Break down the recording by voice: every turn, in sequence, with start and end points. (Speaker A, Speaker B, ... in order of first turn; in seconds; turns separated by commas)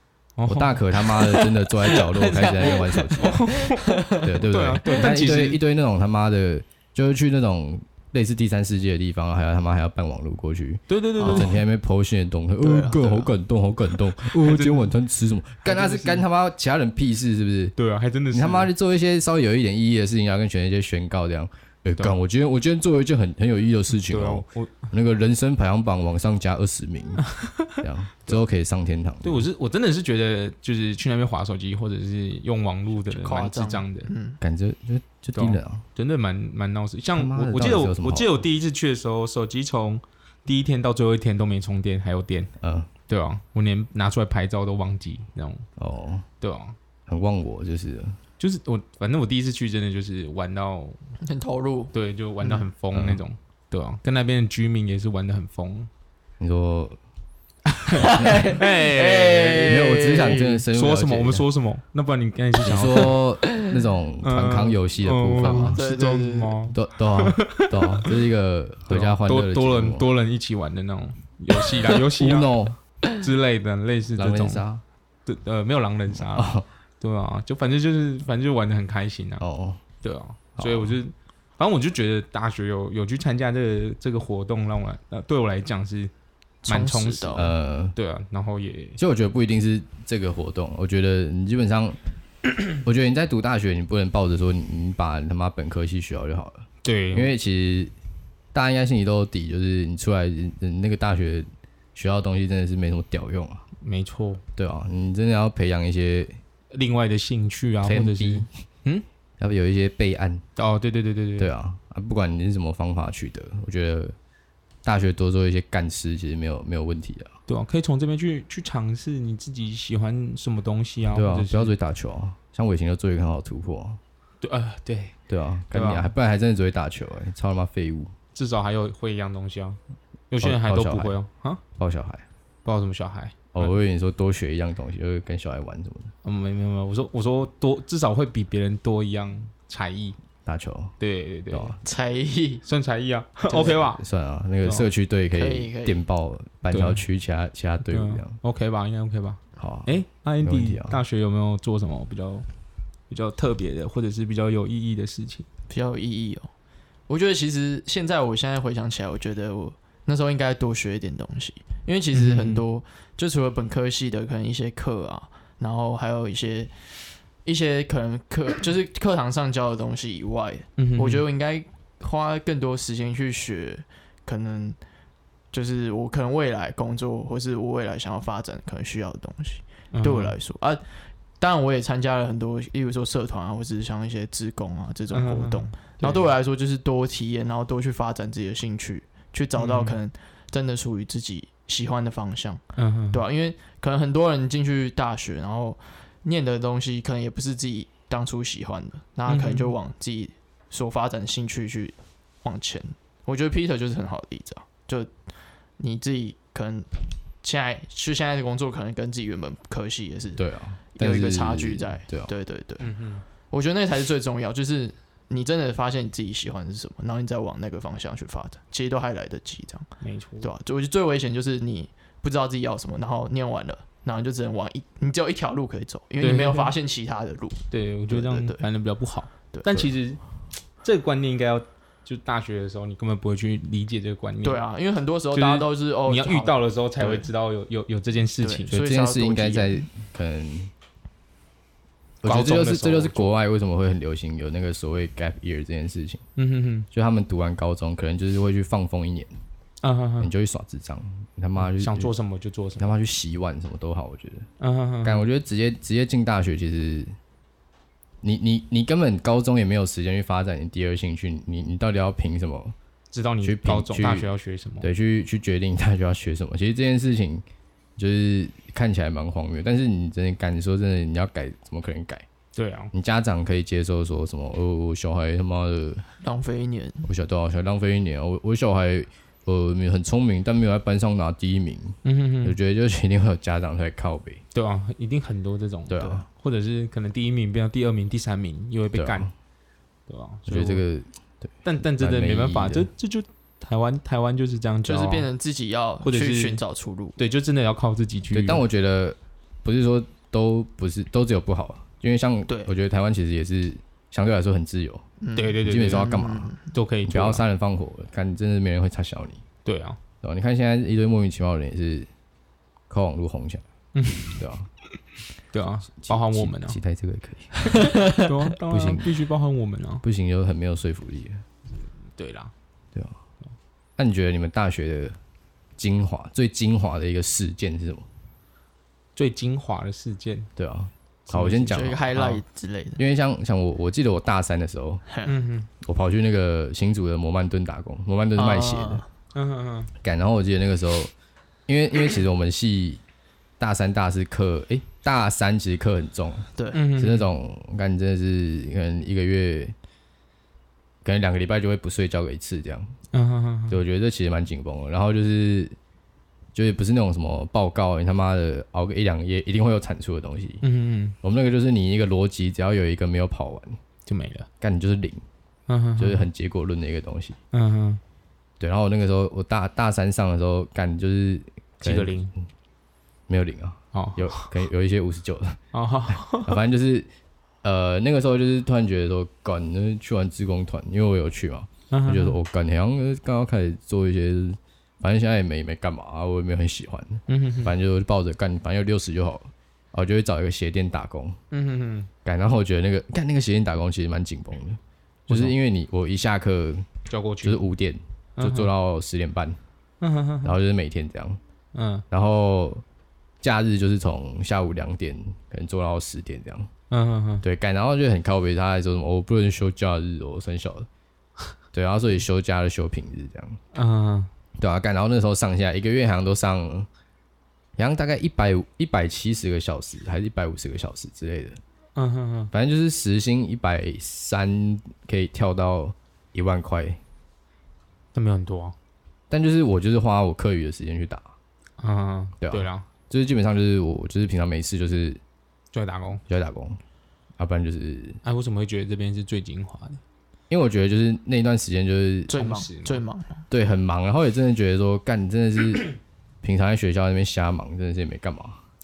Speaker A: 0.4-0.8, Speaker B: 0.5-3.4, Speaker C: 1.8-4.3, Speaker A: 3.2-5.6, Speaker B: 4.2-17.7, Speaker A: 10.9-11.6, Speaker C: 11.2-11.5, Speaker C: 12.6-13.0, Speaker A: 14.3-14.9, Speaker A: 15.6-16.2, Speaker A: 17.8-18.7, Speaker B: 18.3-29.5, Speaker A: 24.1-24.9, Speaker A: 27.4-27.7, Speaker A: 29.2-34.1, Speaker C: 33.1-34.4, Speaker B: 34.4-35.8, Speaker A: 35.4-42.5, Speaker B: 37.1-38.4, Speaker B: 42.6-42.9, Speaker A: 43.1-45.6, Speaker B: 45.8-46.2, Speaker A: 46.4-46.7, Speaker B: 47.1-48.2, Speaker A: 48.4-51.0, Speaker C: 51.2-52.6, Speaker A: 51.9-55.9, Speaker B: 52.9-53.2, Speaker B: 56.4-57.0, Speaker A: 57.7-59.9, Speaker B: 58.0-58.4, Speaker C: 58.0-60.6, Speaker B: 59.6-61.4, Speaker A: 60.7-63.1, Speaker B: 62.6-65.8, Speaker A: 64.2-68.1, Speaker C: 65.4-66.6, Speaker B: 66.7-70.0, Speaker A: 68.9-72.5, Speaker B: 72.2-72.8, Speaker A: 73.0-74.6, Speaker B: 74.2-74.8, Speaker A: 75.2-79.4, Speaker B: 76.2-76.6, Speaker B: 79.4-79.8, Speaker A: 80.0-86.1, Speaker B: 80.6-81.0, Speaker C: 86.6-87.5, Speaker A: 86.6-89.0, Speaker B: 87.3-87.9, Speaker B: 89.0-92.0, Speaker B: 92.8-97.9, Speaker A: 96.8-97.3, Speaker B: 98.5-103.6, Speaker A: 103.8-104.4, Speaker B: 104.5-106.4, Speaker A: 106.7-109.0, Speaker B: 107.8-108.5, Speaker B: 109.4-110.4, Speaker A: 110.5-111.5, Speaker B: 111.4-114.1, Speaker B: 114.8-117.3, Speaker A: 117.5-121.7, Speaker B: 121.1-124.0, Speaker A: 124.4-125.2, Speaker B: 125.3-128.1, Speaker A: 125.7-126.1, Speaker A: 128.3-129.8, Speaker A: 130.3-131.6, Speaker B: 130.4-131.2, Speaker B: 131.8-132.2, Speaker A: 132.6-133.7, Speaker B: 133.5-136.1, Speaker A: 136.2-140.2, Speaker B: 140.4-140.9, Speaker A: 141.0-141.8, Speaker B: 141.5-141.8, Speaker C: 141.8-142.6, Speaker A: 142.7-144.0, Speaker C: 143.5-143.8, Speaker B: 143.9-148.3, Speaker A: 144.6-144.9, Speaker C: 145.3-146.0, Speaker A: 146.7-147.0, Speaker A: 147.8-152.4, Speaker B: 149.6-151.0, Speaker A: 153.1-155.5, Speaker C: 155.7-156.5, Speaker C: 157.1-166.7, Speaker A: 162.1-162.6, Speaker C: 167.4-174.8, Speaker A: 170.8-171.2, Speaker C: 175.5-180.8, Speaker A: 179.9-180.3, Speaker C: 181.4-205.1, Speaker A: 185.1-186.1, Speaker A: 189.6-189.9, Speaker A: 192.8-193.2, Speaker A: 199.3-199.7, Speaker C: 205.8-210.4, Speaker B: 210.3-212.3, Speaker C: 210.9-212.9, Speaker A: 212.8-213.2, Speaker C: 213.5-219.9, Speaker A: 220.0-220.5, Speaker C: 220.4-228.6, Speaker A: 226.2-226.7, Speaker A: 227.7-230.2, Speaker C: 229.5-229.9, Speaker A: 230.8-234.6, Speaker C: 234.4-237.3, Speaker A: 235.3-238.7, Speaker C: 238.4-239.8, Speaker B: 238.7-240.7, Speaker B: 242.2-246.2, Speaker A: 242.2-243.3, Speaker A: 246.3-246.9, Speaker B: 246.9-249.3, Speaker A: 249.8-250.3, Speaker B: 250.2-252.1, Speaker A: 251.7-252.9, Speaker B: 252.8-254.5, Speaker A: 254.6-255.2, Speaker B: 255.0-257.1, Speaker B: 258.2-262.7, Speaker A: 263.1-264.9, Speaker B: 263.4-264.3, Speaker B: 264.8-267.4, Speaker B: 268.0-272.2, Speaker A: 272.5-272.9, Speaker B: 272.9-276.1, Speaker C: 276.2-277.1, Speaker B: 277.1-284.4, Speaker A: 282.0-282.6, Speaker A: 284.5-289.3, Speaker B: 285.9-286.2, Speaker B: 288.9-289.3, Speaker A: 290.1-290.8, Speaker B: 290.5-292.9, Speaker A: 291.6-295.3, Speaker C: 294.8-297.2, Speaker A: 296.0-296.6, Speaker A: 297.2-298.6, Speaker B: 298.3-305.0, Speaker C: 302.5-302.7, Speaker C: 305.2-306.6, Speaker A: 305.3-307.4, Speaker B: 305.6-306.5, Speaker B: 307.1-309.4, Speaker A: 309.6-310.0, Speaker B: 310.2-312.1, Speaker B: 312.9-313.6, Speaker A: 313.9-314.4, Speaker B: 314.2-314.7, Speaker A: 315.5-316.8, Speaker B: 316.0-319.1, Speaker A: 317.9-320.0, Speaker B: 320.0-321.4, Speaker A: 322.1-322.5, Speaker B: 324.0-325.1, Speaker B: 325.8-328.0, Speaker A: 329.1-330.5, Speaker B: 330.6-332.0, Speaker A: 331.3-332.4, Speaker C: 331.6-333.0, Speaker B: 333.0-335.0, Speaker C: 335.1-335.3, Speaker A: 335.2-335.7, Speaker B: 335.8-339.0, Speaker C: 338.3-339.0, Speaker A: 339.3-339.9, Speaker B: 340.0-341.1, Speaker B: 341.7-343.0, Speaker B: 343.6-349.7, Speaker C: 346.6-346.8, Speaker A: 346.7-347.3, Speaker B: 351.0-352.9, Speaker A: 353.1-353.8, Speaker B: 353.7-355.8, Speaker B: 356.5-360.6, Speaker A: 360.6-361.1, Speaker B: 361.2-363.8, Speaker A: 364.1-364.5, Speaker B: 364.6-365.2, Speaker A: 365.7-366.2, Speaker B: 366.0-367.4, Speaker A: 367.5-368.0, Speaker B: 368.6-372.1, Speaker A: 371.8-372.3, Speaker B: 373.3-375.6, Speaker A: 373.9-374.5, Speaker A: 375.7-376.6, Speaker B: 376.4-377.1, Speaker B: 377.6-391.4, Speaker A: 381.9-382.4, Speaker A: 387.3-387.7, Speaker A: 391.5-392.1, Speaker B: 392.2-396.9, Speaker A: 395.3-395.5, Speaker A: 397.1-397.6, Speaker B: 397.4-399.6, Speaker A: 398.4-398.7, Speaker A: 400.0-400.5, Speaker B: 400.4-401.4, Speaker A: 401.7-402.0, Speaker B: 402.1-402.8, Speaker B: 403.4-406.7, Speaker A: 406.9-407.4, Speaker B: 407.4-410.9, Speaker B: 411.7-413.6, Speaker A: 413.7-414.3, Speaker B: 414.6-416.9, Speaker B: 417.8-421.6, Speaker A: 421.9-422.5, Speaker B: 422.5-427.0, Speaker A: 428.1-428.7, Speaker B: 429.3-431.3, Speaker A: 431.8-432.9, Speaker B: 432.4-435.2, Speaker A: 435.7-436.2, Speaker B: 436.3-436.8, Speaker B: 437.4-438.2, Speaker A: 438.2-440.0, Speaker B: 440.5-442.3, Speaker C: 442.3-443.4, Speaker A: 442.3-443.0, Speaker B: 443.5-445.9, Speaker B: 446.4-448.6